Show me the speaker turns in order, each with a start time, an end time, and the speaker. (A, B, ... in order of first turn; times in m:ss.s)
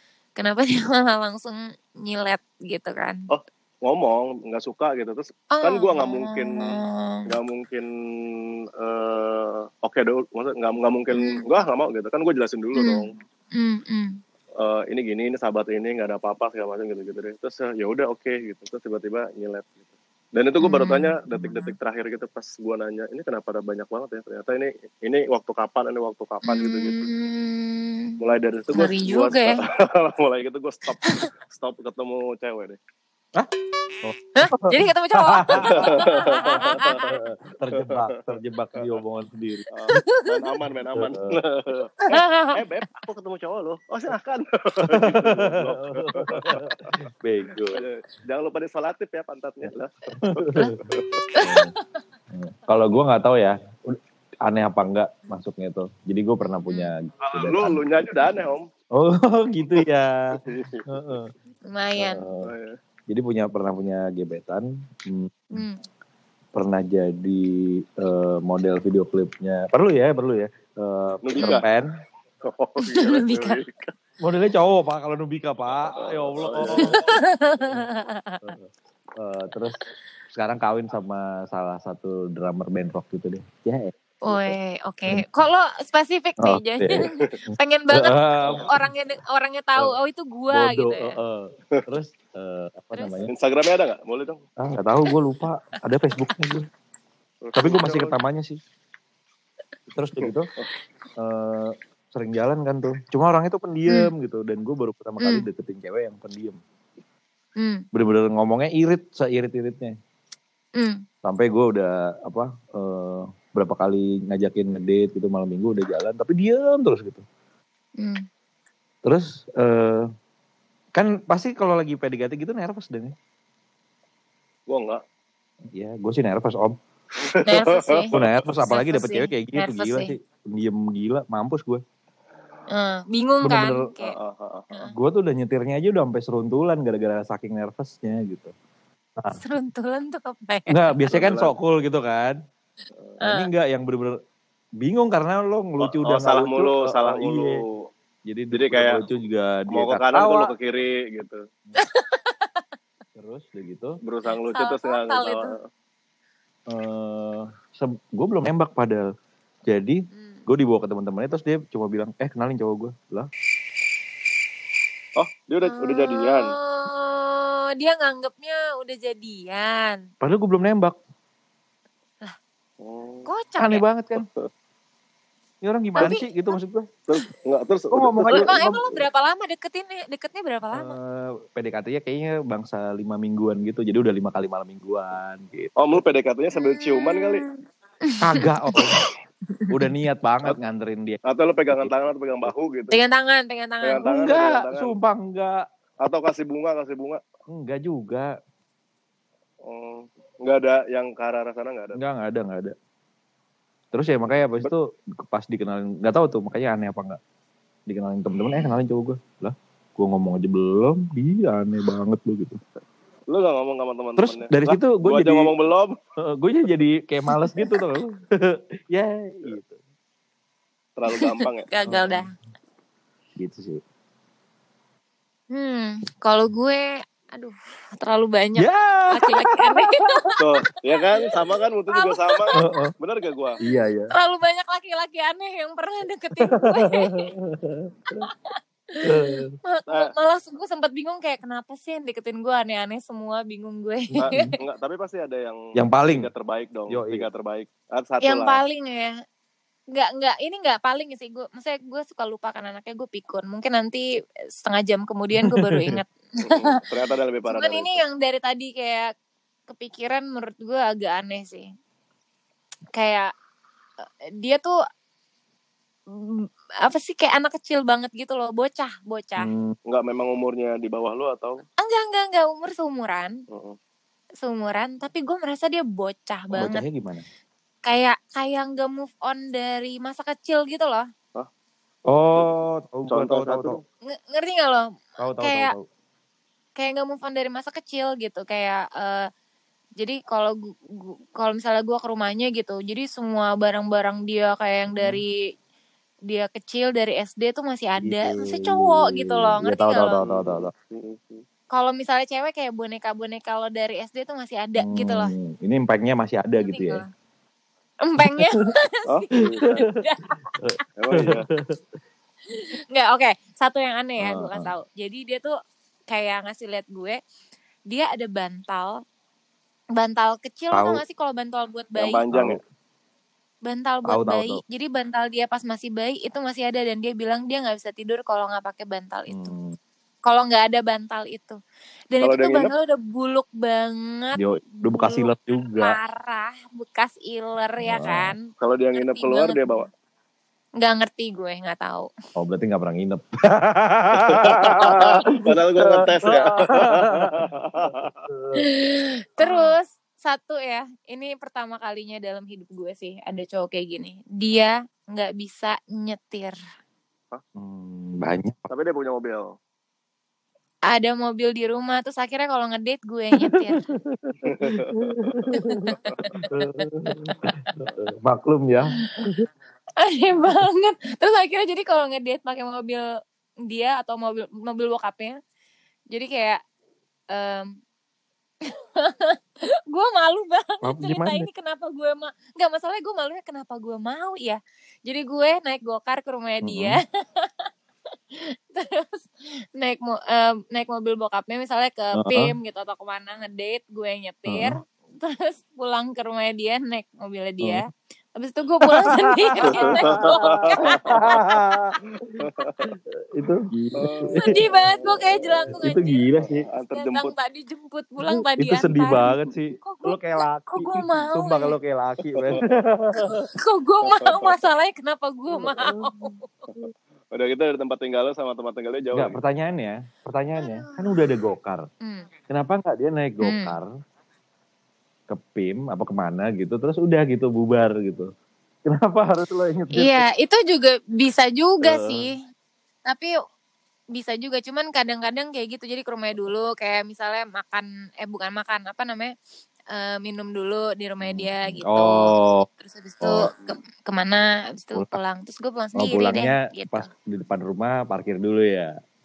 0:00.4-0:03.2 A
0:03.3-0:13.1 B
0:05.5-0:07.2 A
0:11.2-0:11.4 A
0:12.8-0:14.2 A
0:14.6-0:19.8 B
0:20.4-0:27.1 B
0:20.6-0:21.8 A
0:26.4-0:28.2 A
0:28.2-0:32.8 B
0:28.7-0:29.6 A
0:31.0-0:31.3 A
0:34.0-0:39.7 C
0:34.4-0:37.2 A
0:35.6-0:37.2 B
0:37.8-0:38.9 B
0:39.7-0:46.9 B
0:39.9-0:40.5 A
0:40.9-0:41.3 C
0:42.0-0:42.6 A
0:44.9-0:47.8 C
0:47.7-0:51.2 B
0:50.2-0:50.8 C
0:51.3-0:52.0 A
0:51.4-0:51.7 C
0:52.3-0:57.8 C
0:57.2-0:58.7 B
0:58.9-1:01.3 C
1:00.4-1:00.8 B
1:01.6-1:02.2 A
1:02.0-1:02.5 C
1:02.4-1:02.8 B
1:03.1-1:05.6 C
1:05.5-1:05.8 A
1:06.5-1:11.9 C
1:11.2-1:11.7 B
1:12.4-1:13.9 B
1:12.8-1:13.6 A
1:14.2-1:17.1 C
1:15.7-1:17.0 B
1:16.8-1:18.5 A
1:18.4-1:19.8 C
1:20.3-1:23.9 C
1:24.2-1:31.2 A
1:24.3-1:24.6 B
1:25.1-1:25.4 C
1:26.4-1:28.9 C
1:27.0-1:27.3 B
1:30.5-1:33.3 C
1:32.9-1:33.2 A
1:33.3-1:34.4 B
1:34.6-1:36.7 C
1:37.4-1:38.2 B
1:37.5-1:38.6 C
1:39.9-1:40.5 C
1:40.2-1:40.6 B
1:41.2-1:46.6 C
1:45.2-1:45.4 A
1:47.6-1:47.8 A
1:47.9-1:50.0 C
1:50.8-1:51.0 A
1:51.2-1:57.2 C
1:58.0-1:58.2 A
1:59.0-2:00.1 C
2:00.9-2:03.1 C
2:04.7-2:05.0 B
2:05.7-2:06.8 C
2:07.2-2:08.3 B
2:07.4-2:10.1 A
2:08.1-2:11.8 C
2:12.7-2:14.2 A
2:13.4-2:13.9 C
2:14.0-2:14.7 B
2:14.8-2:18.5 C
2:19.3-2:21.1 A
2:20.7-2:22.4 C
2:21.1-2:21.5 B
2:23.2-2:24.2 C
2:23.2-2:23.5 A
2:24.8-2:27.6 C
2:25.8-2:27.7 B
2:28.2-2:30.5 C
2:28.5-2:29.0 B
2:29.7-2:31.4 B
2:31.8-2:32.6 A
2:33.2-2:34.0 C
2:34.0-2:35.6 B
2:34.5-2:35.6 A
2:36.7-2:39.0 C
2:39.6-2:43.3 C
2:40.1-2:40.4 A
2:45.2-2:46.5 B
2:45.6-2:50.0 A
2:50.2-2:51.0 C
2:52.8-2:53.3 B
2:53.3-2:53.8 A
2:53.6-2:54.2 C
2:54.2-2:54.5 B
2:55.6-2:56.9 C
2:56.0-2:56.5 A
2:57.1-2:58.5 B
2:57.9-2:59.0 C
2:58.2-3:01.0 A
3:00.7-3:05.7 C
3:05.8-3:07.4 B
3:06.5-3:07.5 A
3:08.0-3:08.9 A
3:08.2-3:09.0 C
3:09.7-3:11.9 C
3:11.3-3:13.0 B
3:12.9-3:14.0 A
3:13.8-3:14.9 B
3:14.0-3:15.6 C
3:16.0-3:17.2 B
3:17.5-3:18.3 C
3:19.6-3:22.0 B
3:21.9-3:22.7 C
3:23.9-3:27.2 C
3:27.9-3:32.6 C
3:33.3-3:36.0 B
3:34.2-3:35.5 C
3:36.2-3:39.8 C
3:37.3-3:37.8 A
3:41.0-3:41.7 B
3:41.1-3:42.3 A
3:41.8-3:42.2 C
3:43.4-3:43.8 C
3:45.5-3:52.6 A
3:48.6-3:50.3 C
3:50.4-3:53.6 B
3:52.6-3:52.9 C
3:53.6-3:54.1 C
3:54.1-3:57.3 A
3:56.4-3:58.3 C
3:58.2-4:04.5 A
3:59.0-3:59.5 C
4:04.2-4:08.6 B
4:05.7-4:06.3 C
4:06.9-4:07.3 C
4:08.2-4:09.1 A
4:09.9-4:14.0 A
4:14.6-4:16.8 A
4:15.4-4:16.0 C
4:16.4-4:18.0 B
4:17.5-4:19.1 A
4:19.7-4:21.7 A
4:22.9-4:23.3 A
4:24.0-4:24.7 A
4:26.1-4:29.5 A
4:29.4-4:29.7 C
4:29.9-4:31.6 B
4:31.8-4:33.4 A
4:33.5-4:33.8 B
4:34.4-4:36.8 A
4:36.5-4:37.2 C
4:37.8-4:41.0 A
4:42.1-4:43.8 C
4:43.1-4:43.8 B
4:44.1-4:44.8 A
4:45.2-4:45.8 C
4:45.4-4:45.7 A
4:46.8-4:49.2 A
4:50.0-4:55.4 A
4:55.0-4:55.2 C
4:56.3-5:00.2 A
4:58.0-5:00.7 C
5:00.2-5:01.4 B
5:01.7-5:05.3 A
5:04.8-5:07.0 C
5:06.6-5:07.1 A
5:08.0-5:10.4 A
5:08.2-5:08.6 C
5:09.1-5:09.8 B
5:09.6-5:10.0 C
5:10.5-5:11.8 C
5:11.0-5:11.4 B
5:12.6-5:15.5 A
5:14.2-5:14.7 C
5:16.1-5:17.2 A
5:17.9-5:19.0 A
5:20.0-5:22.2 A
5:20.7-5:21.0 C
5:22.0-5:22.6 B
5:22.3-5:22.6 C
5:23.6-5:29.5 A
5:24.1-5:24.6 C
5:29.3-5:29.8 C
5:30.2-5:31.6 A
5:32.1-5:39.9 A
5:32.2-5:32.7 B
5:34.4-5:36.0 C
5:37.8-5:38.3 C
5:38.6-5:39.9 B
5:40.8-5:42.1 A
5:42.4-5:48.6 C
5:44.2-5:48.2 B
5:48.6-5:56.6 A
5:57.5-5:58.7 C
5:58.7-5:59.5 B
6:00.9-6:03.8 A
6:03.4-6:09.5 C
6:04.4-6:06.4 B
6:05.5-6:06.5 A
6:07.0-6:07.7 A
6:10.0-6:13.0 A
6:13.7-6:15.4 A
6:16.1-6:16.6 A
6:17.3-6:17.7 A
6:19.0-6:19.4 A
6:19.9-6:27.7 A
6:20.8-6:21.5 C
6:26.6-6:27.0 C
6:28.3-6:41.5 A
6:32.2-6:32.5 C
6:34.5-6:34.7 C
6:38.9-6:44.6 C
6:39.6-6:41.4 B
6:42.4-6:42.9 B
6:44.0-6:45.8 B
6:44.4-6:46.3 A
6:45.7-6:46.6 C
6:46.3-6:47.3 B
6:46.9-6:51.7 A
6:48.3-6:53.4 C
6:52.3-6:52.6 B
6:53.5-6:56.6 A
6:54.0-6:54.6 B
6:55.8-6:56.1 C
6:56.8-6:59.4 B
6:59.1-7:01.9 C
7:00.6-7:01.3 A
7:02.0-7:02.3 A
7:02.5-7:03.9 C
7:03.4-7:03.8 A
7:05.3-7:08.3 C
7:08.8-7:10.3 C
7:09.9-7:12.3 A
7:11.8-7:12.2 C
7:13.1-7:13.3 A
7:14.1-7:19.3 A
7:19.9-7:27.1 A
7:21.2-7:22.6 C
7:23.2-7:23.5 C
7:26.0-7:28.9 C